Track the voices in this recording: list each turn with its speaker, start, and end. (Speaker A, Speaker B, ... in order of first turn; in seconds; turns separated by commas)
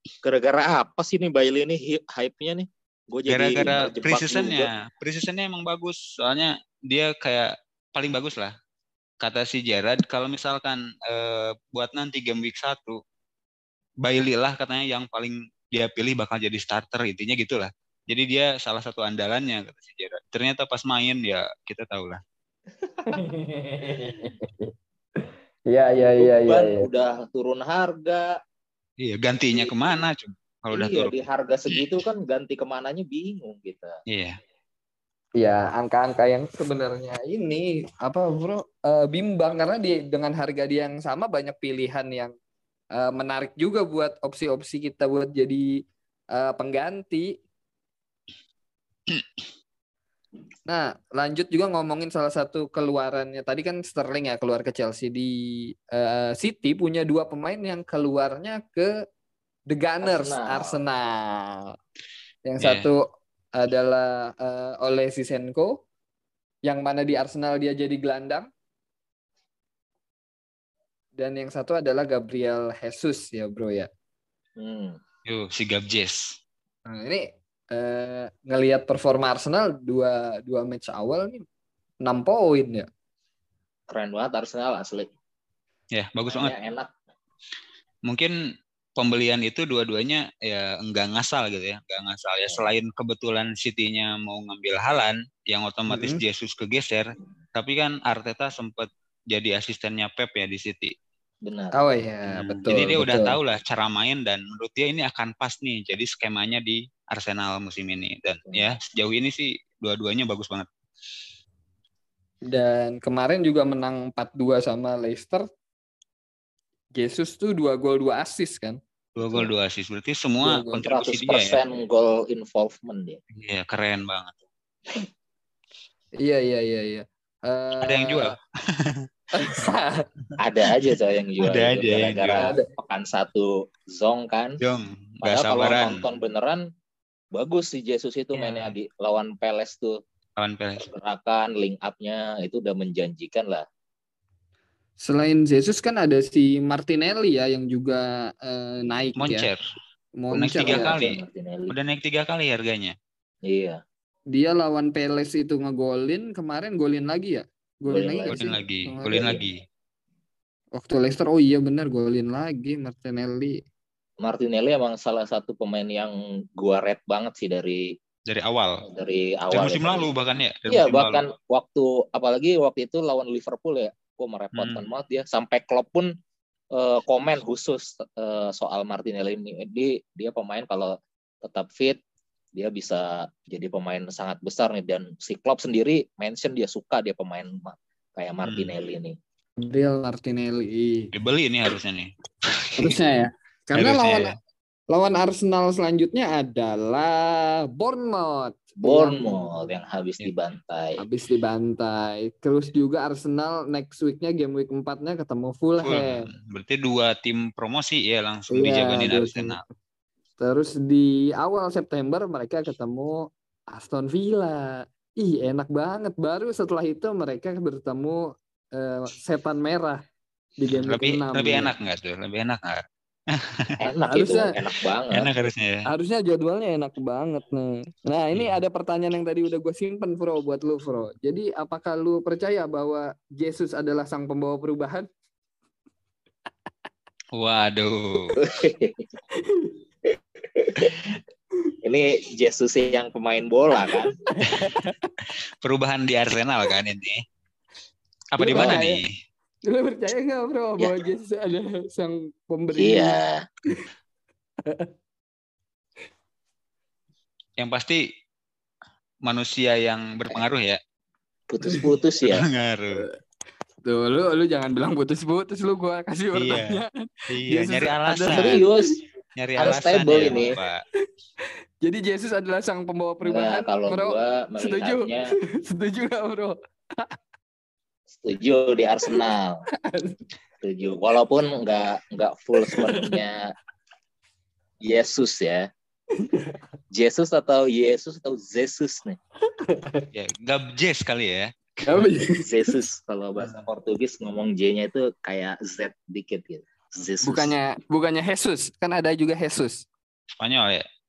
Speaker A: 0.2-4.7, Speaker B: 3.3-8.5, Speaker B: 9.2-13.0, Speaker B: 14.0-22.2, Speaker A: 22.9-23.2, Speaker C: 23.1-26.9, Speaker A: 26.2-28.3, Speaker B: 29.0-31.1, Speaker A: 29.5-30.0, Speaker A: 30.7-33.9, Speaker B: 34.1-34.4, Speaker C: 35.4-42.3, Speaker C: 43.0-45.7, Speaker C: 46.3-47.4, Speaker C: 50.7-58.9, Speaker C: 59.7-61.8, Speaker A: 60.0-60.8, Speaker C: 62.5-65.8, Speaker B: 62.6-62.9, Speaker C: 66.7-68.5, Speaker C: 71.2-73.9, Speaker A: 74.6-75.0, Speaker B: 75.3-76.4, Speaker C: 76.9-81.5, Speaker C: 82.0-82.9, Speaker A: 83.9-85.1, Speaker B: 85.9-86.5, Speaker A: 86.3-86.9, Speaker B: 88.1-88.3, Speaker B: 89.0-100.9, Speaker A: 92.5-92.8, Speaker C: 95.9-96.2, Speaker A: 101.5-101.8, Speaker C: 101.7-103.4, Speaker B: 102.3-110.7, Speaker A: 108.5-108.8, Speaker C: 112.5-115.5, Speaker C: 117.0-118.8, Speaker B: 119.2-121.6, Speaker A: 119.2-119.5, Speaker C: 120.4-120.9, Speaker A: 120.8-123.2, Speaker B: 123.3-124.4, Speaker C: 126.2-128.3, Speaker B: 127.8-129.1, Speaker C: 129.3-130.0, Speaker A: 130.4-134.6, Speaker B: 131.4-132.5, Speaker C: 132.4-132.7, Speaker B: 134.6-136.0, Speaker A: 135.2-136.6, Speaker A: 137.3-140.0, Speaker B: 138.4-138.7, Speaker B: 140.4-140.9, Speaker A: 140.8-143.7, Speaker C: 145.0-149.5, Speaker B: 149.2-149.6, Speaker C: 150.2-151.0, Speaker B: 150.3-151.2, Speaker A: 150.7-151.8, Speaker B: 151.7-152.9, Speaker A: 153.4-153.8, Speaker C: 154.3-159.4, Speaker A: 157.9-159.4, Speaker B: 158.3-159.6, Speaker C: 160.8-163.6, Speaker A: 164.2-168.0, Speaker B: 168.3-168.8, Speaker A: 168.9-170.1, Speaker B: 169.5-171.2, Speaker A: 170.7-176.1, Speaker B: 174.6-174.9, Speaker A: 176.7-182.0, Speaker A: 182.6-189.2, Speaker B: 188.4-188.7, Speaker C: 189.6-191.1, Speaker B: 191.1-193.0, Speaker C: 192.8-194.3, Speaker B: 193.8-194.3, Speaker C: 194.9-199.2, Speaker A: 198.8-201.0, Speaker C: 201.0-206.3, Speaker B: 205.8-209.6, Speaker C: 208.5-209.6, Speaker C: 210.4-220.0, Speaker C: 220.6-221.7, Speaker B: 220.7-222.8, Speaker B: 223.4-223.8, Speaker A: 223.8-225.3, Speaker C: 224.1-224.6, Speaker B: 225.1-225.9, Speaker C: 225.9-235.1, Speaker B: 237.3-238.4, Speaker A: 238.4-239.0, Speaker C: 239.3-239.8, Speaker A: 241.8-244.2, Speaker C: 244.3-245.1, Speaker B: 245.6-247.2, Speaker B: 248.4-249.1, Speaker C: 248.4-249.0, Speaker A: 248.5-248.8, Speaker C: 249.7-253.8, Speaker A: 252.8-253.4, Speaker B: 257.6-258.0, Speaker B: 259.2-260.8, Speaker A: 261.5-262.4, Speaker C: 261.6-261.9, Speaker B: 262.3-263.1, Speaker C: 263.9-268.7, Speaker B: 266.3-268.6, Speaker A: 268.3-269.0, Speaker B: 269.4-270.8, Speaker A: 269.6-270.6, Speaker C: 271.8-277.1, Speaker A: 273.2-275.3, Speaker A: 278.1-279.6, Speaker C: 279.8-280.2, Speaker A: 280.6-283.5, Speaker C: 282.6-283.2, Speaker A: 284.8-285.7, Speaker C: 286.2-286.6, Speaker A: 286.9-289.2, Speaker C: 289.6-290.1, Speaker B: 290.1-292.1, Speaker C: 291.9-292.5, Speaker A: 292.4-297.5, Speaker C: 297.2-299.9, Speaker B: 300.4-300.9